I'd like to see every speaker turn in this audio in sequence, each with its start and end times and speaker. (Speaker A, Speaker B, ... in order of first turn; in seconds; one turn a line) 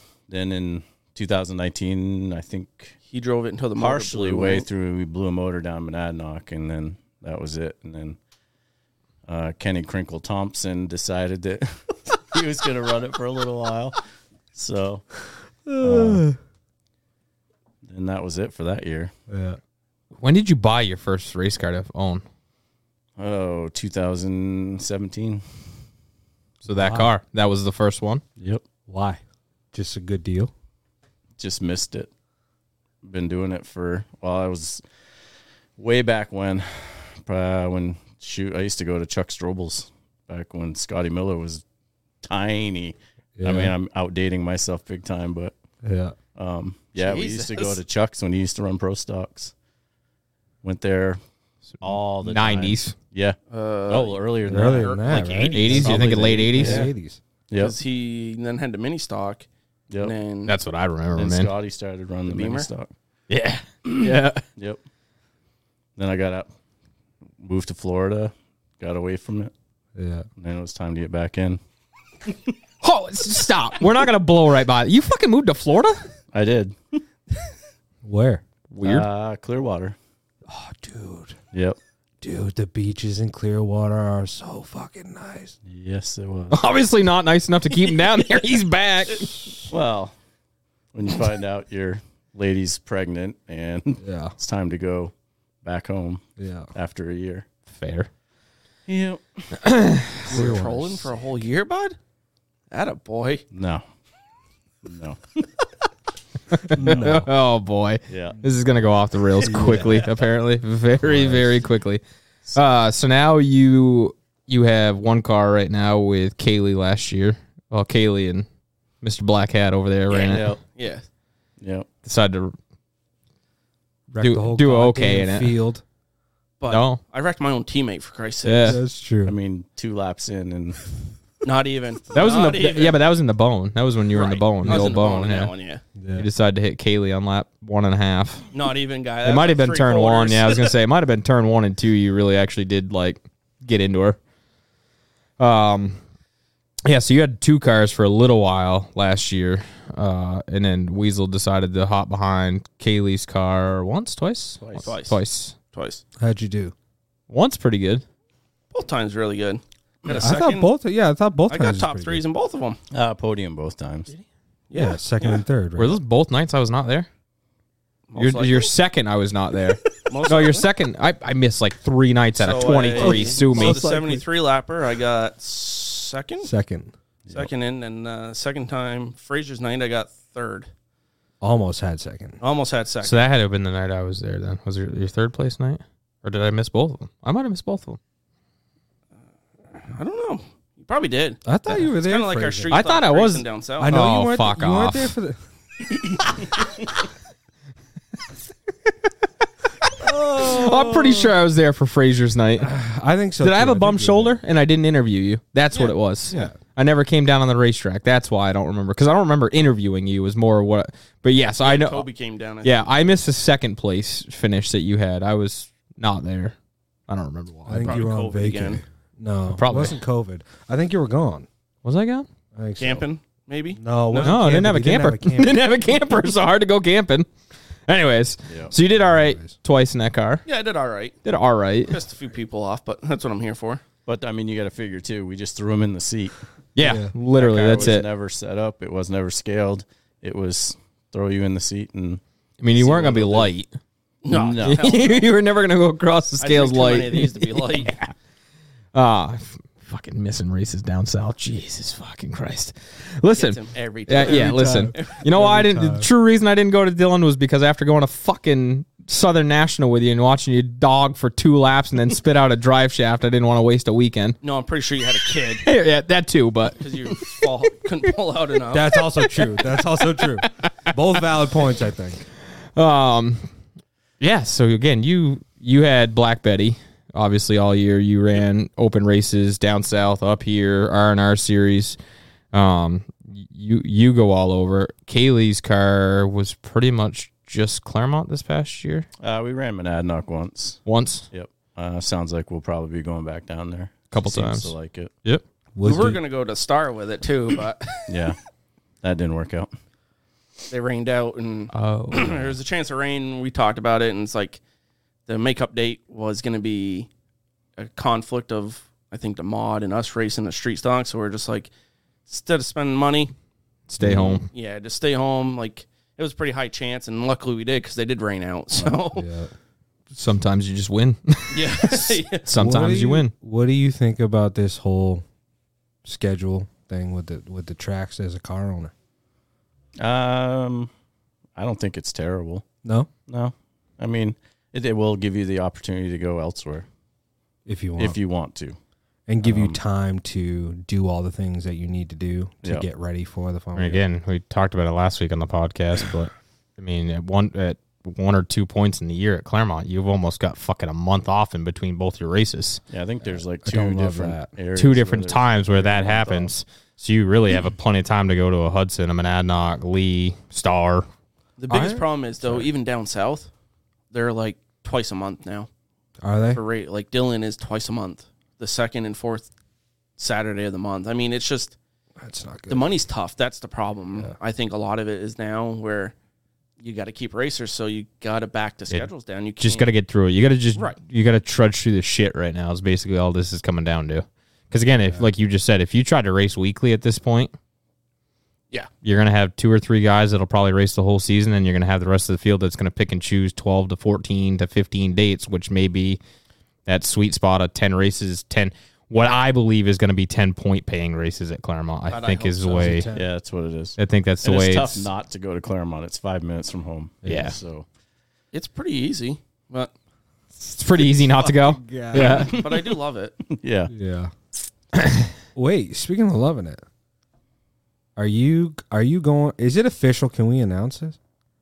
Speaker A: 0.3-3.0
Speaker B: 3.1-4.7
Speaker A: 3.8-8.2
Speaker A: 9.2-14.0
Speaker A: 14.5-15.1
Speaker C: 15.7-16.4
Speaker A: 15.8-16.2
Speaker A: 17.8-19.1
Speaker C: 19.3-19.6
Speaker D: 20.2-22.2
Speaker A: 23.2-25.4
Speaker C: 26.6-27.1
Speaker D: 26.6-28.2
Speaker A: 28.4-28.6
Speaker C: 28.9-29.2
Speaker C: 29.7-30.5
Speaker A: 31.4-32.1
Speaker A: 33.0-34.8
Speaker A: 35.8-41.6
Speaker A: 42.2-45.5
Speaker C: 43.4-43.8
Speaker C: 45.8-46.1
Speaker A: 46.3-49.5
Speaker B: 47.0-47.8
Speaker A: 50.6-51.2
Speaker D: 51.7-52.9
Speaker A: 51.8-53.4
Speaker B: 53.5-56.9
Speaker A: 53.9-55.1
Speaker C: 54.4-57.2
Speaker D: 55.5-56.9
Speaker A: 55.7-56.9
Speaker A: 57.5-57.8
Speaker B: 57.5-59.5
Speaker B: 60.0-60.5
Speaker D: 60.5-61.5
Speaker A: 61.1-62.9
Speaker B: 62.3-62.7
Speaker D: 63.3-64.4
Speaker A: 64.0-64.8
Speaker A: 66.0-66.5
Speaker A: 67.4-69.5
Speaker C: 70.0-70.3
Speaker A: 70.4-71.6
Speaker D: 72.8-76.0
Speaker A: 76.3-77.0
Speaker C: 78.0-78.4
Speaker D: 78.7-79.1
Speaker A: 78.8-80.0
Speaker C: 80.5-81.4
Speaker C: 82.2-85.5
Speaker A: 85.7-86.6
Speaker D: 86.5-89.3
Speaker A: 89.7-90.1
Speaker A: 90.9-97.5
Speaker C: 94.0-94.3
Speaker C: 96.4-96.7
Speaker D: 97.7-98.1
Speaker A: 98.9-99.5
Speaker D: 99.6-100.5
Speaker C: 100.2-101.1
Speaker B: 100.2-102.0
Speaker B: 102.7-103.4
Speaker A: 103.5-103.8
Speaker A: 104.8-105.2
Speaker D: 106.5-112.0
Speaker C: 106.7-107.3
Speaker A: 108.1-108.4
Speaker C: 109.5-110.0
Speaker C: 111.0-111.5
Speaker D: 112.5-118.5
Speaker D: 119.0-120.5
Speaker B: 120.1-121.0
Speaker A: 120.2-120.6
Speaker A: 121.6-121.9
Speaker D: 122.0-122.5
Speaker C: 124.1-125.8
Speaker D: 124.2-125.6
Speaker B: 126.6-128.8
Speaker D: 126.7-127.0
Speaker D: 128.4-128.8
Speaker C: 128.6-129.3
Speaker A: 129.2-130.8
Speaker B: 131.4-133.0
Speaker D: 132.1-135.5
Speaker B: 134.1-135.8
Speaker C: 134.6-134.9
Speaker C: 136.0-136.3
Speaker D: 136.2-138.5
Speaker B: 138.5-140.7
Speaker D: 139.2-144.2
Speaker D: 145.4-146.0
Speaker D: 146.8-155.5
Speaker A: 154.6-154.9
Speaker B: 154.8-155.2
Speaker B: 155.7-156.0
Speaker C: 156.2-156.7
Speaker D: 157.3-158.0
Speaker B: 158.7-160.7
Speaker C: 160.1-162.2
Speaker B: 161.5-162.8
Speaker A: 162.9-164.1
Speaker B: 164.7-165.0
Speaker C: 164.7-166.0
Speaker D: 165.8-167.1
Speaker B: 168.1-168.7
Speaker D: 168.2-173.8
Speaker B: 170.0-170.6
Speaker B: 172.3-176.5
Speaker C: 172.9-174.2
Speaker C: 176.4-176.9
Speaker B: 177.3-180.7
Speaker C: 181.4-182.4
Speaker B: 182.4-183.2
Speaker D: 183.0-188.0
Speaker B: 189.7-194.0
Speaker C: 191.4-192.8
Speaker D: 192.7-195.1
Speaker C: 193.8-195.4
Speaker C: 195.9-196.2
Speaker C: 200.0-201.4
Speaker D: 200.0-202.7
Speaker C: 202.6-204.4
Speaker D: 203.4-212.1
Speaker C: 206.3-206.6
Speaker B: 211.6-213.2
Speaker D: 212.6-216.5
Speaker D: 217.1-218.0
Speaker C: 217.7-221.5
Speaker B: 217.8-218.8
Speaker D: 219.5-220.0
Speaker D: 221.8-222.2
Speaker C: 222.5-223.0
Speaker B: 222.8-224.4
Speaker C: 223.8-225.6
Speaker D: 224.2-227.3
Speaker D: 227.9-230.4
Speaker A: 228.5-228.7
Speaker C: 229.0-229.5
Speaker B: 230.4-231.2
Speaker D: 231.2-232.0
Speaker B: 231.8-233.8
Speaker A: 234.1-236.4
Speaker D: 236.7-238.1
Speaker C: 236.8-237.1
Speaker A: 237.3-242.2
Speaker D: 242.6-243.7
Speaker A: 242.7-243.5
Speaker B: 244.2-245.3
Speaker A: 244.3-244.9
Speaker D: 244.5-248.1
Speaker B: 246.4-248.0
Speaker D: 248.9-264.4
Speaker B: 253.3-255.2
Speaker C: 254.2-256.1
Speaker B: 264.4-265.6
Speaker D: 265.5-267.4
Speaker B: 266.7-268.9
Speaker C: 268.7-272.2
Speaker D: 269.3-270.7
Speaker D: 272.8-273.4
Speaker D: 274.2-282.0
Speaker D: 282.5-289.1
Speaker A: 289.2-295.1
Speaker D: 290.8-291.3
Speaker D: 294.1-295.4
Speaker C: 295.7-296.2
Speaker B: 295.8-298.2
Speaker A: 298.1-298.4
Speaker A: 299.0-299.7
Speaker B: 300.7-304.6
Speaker D: 301.7-302.5
Speaker B: 305.2-307.1
Speaker B: 307.8-311.7
Speaker B: 312.3-313.3
Speaker D: 313.9-314.5
Speaker C: 314.0-314.4
Speaker B: 314.1-319.2
Speaker C: 318.7-319.5
Speaker D: 320.1-323.3
Speaker B: 321.5-322.4
Speaker C: 322.5-325.2
Speaker C: 326.0-328.9
Speaker A: 330.0-330.9
Speaker A: 331.6-332.6
Speaker C: 332.8-333.1
Speaker A: 333.3-336.9
Speaker C: 337.6-338.2
Speaker A: 338.0-338.8
Speaker C: 339.3-344.0
Speaker A: 339.4-339.8
Speaker D: 343.8-352.8
Speaker A: 352.9-356.5
Speaker C: 353.6-354.5
Speaker D: 354.7-361.1
Speaker B: 361.6-363.5
Speaker C: 361.7-362.7
Speaker B: 364.1-365.7
Speaker C: 366.2-366.6
Speaker B: 366.5-369.5
Speaker B: 370.2-371.8
Speaker C: 372.2-372.9
Speaker B: 372.7-376.1
Speaker B: 376.8-379.9
Speaker D: 379.6-387.5
Speaker D: 389.0-396.2
Speaker D: 396.9-403.1
Speaker B: 402.1-403.1
Speaker C: 402.7-403.3
Speaker A: 403.1-407.9
Speaker D: 404.0-405.1
Speaker C: 407.2-407.5
Speaker D: 407.2-407.6
Speaker B: 408.5-409.9
Speaker D: 410.7-412.6
Speaker C: 411.0-412.6
Speaker B: 412.1-413.4
Speaker A: 413.5-413.9
Speaker C: 413.9-414.3
Speaker D: 415.0-415.3
Speaker C: 415.6-416.8
Speaker C: 418.1-421.2